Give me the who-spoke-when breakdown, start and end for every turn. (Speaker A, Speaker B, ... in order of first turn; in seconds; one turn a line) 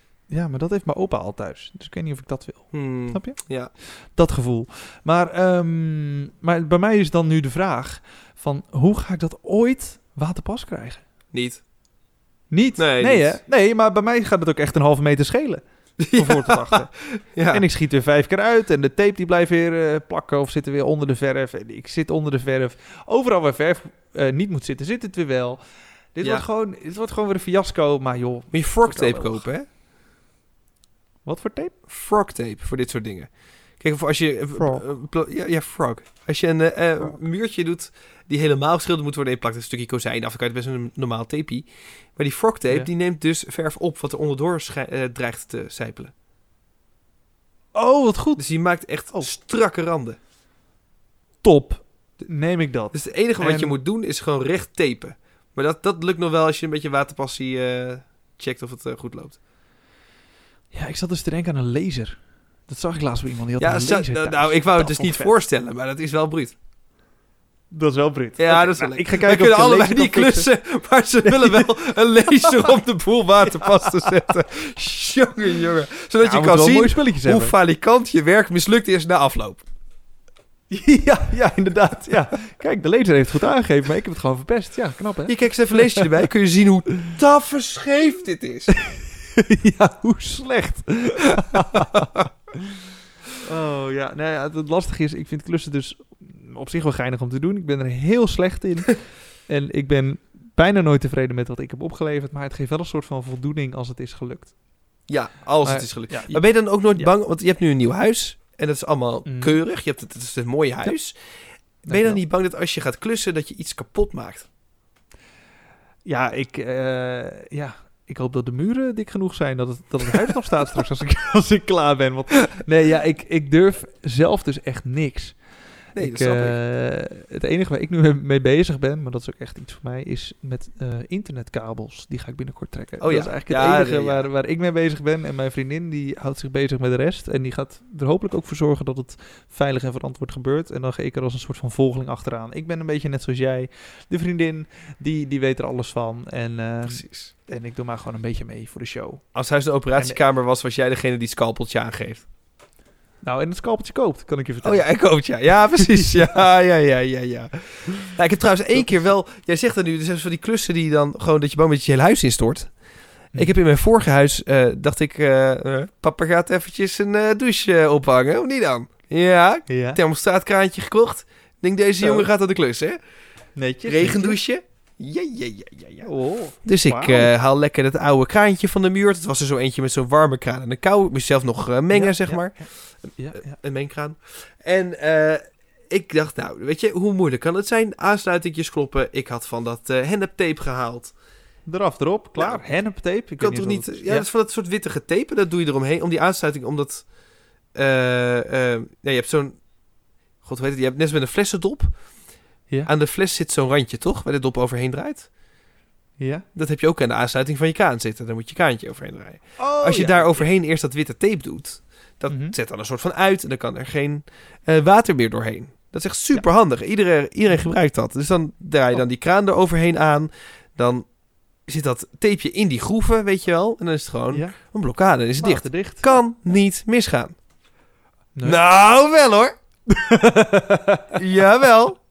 Speaker A: 0.3-11.1
Speaker B: 2.7-3.7
Speaker B: 11.3-11.6
Speaker A: 12.5-16.9
Speaker B: 12.8-13.4
Speaker B: 16.0-17.6
Speaker A: 17.5-25.6
Speaker A: 26.1-29.4
Speaker B: 28.5-29.6
Speaker A: 31.2-31.7
Speaker B: 31.9-46.1
Speaker A: 34.5-34.8
Speaker A: 47.7-48.4
Speaker B: 48.4-50.2
Speaker A: 51.4-53.8
Speaker B: 52.9-59.4
Speaker A: 60.7-62.1
Speaker A: 62.7-65.3
Speaker B: 63.6-66.5
Speaker A: 67.7-70.5
Speaker B: 68.4-79.6
Speaker A: 71.2-72.7
Speaker A: 73.4-74.1
Speaker A: 76.2-77.5
Speaker A: 80.7-86.1
Speaker B: 85.3-88.7
Speaker A: 88.7-92.3
Speaker B: 91.7-92.0
Speaker A: 93.4-104.5
Speaker B: 105.1-111.1
Speaker A: 105.6-106.4
Speaker A: 109.2-109.6
Speaker B: 111.8-114.5
Speaker A: 111.9-112.2
Speaker A: 116.0-125.3
Speaker B: 125.9-126.6
Speaker A: 125.9-149.2
Speaker B: 133.0-134.2
Speaker B: 146.8-147.3
Speaker B: 149.3-152.2
Speaker A: 153.2-154.9
Speaker B: 154.6-162.7
Speaker A: 155.8-156.2
Speaker B: 163.3-173.0
Speaker A: 169.7-170.0
Speaker A: 172.0-172.3
Speaker A: 173.6-174.4
Speaker B: 173.8-176.1
Speaker A: 176.0-177.3
Speaker B: 176.6-182.5
Speaker A: 181.9-183.6
Speaker B: 183.1-191.1
Speaker A: 191.7-194.3
Speaker B: 192.4-192.6
Speaker B: 193.4-197.0
Speaker B: 197.7-199.6
Speaker B: 200.4-201.9
Speaker B: 202.8-205.3
Speaker A: 206.2-206.4
Speaker B: 206.5-221.1
Speaker A: 209.6-210.4
Speaker A: 212.3-212.6
Speaker B: 221.7-227.3
Speaker A: 225.4-226.2
Speaker B: 228.4-229.5
Speaker A: 229.9-231.2
Speaker B: 231.1-232.0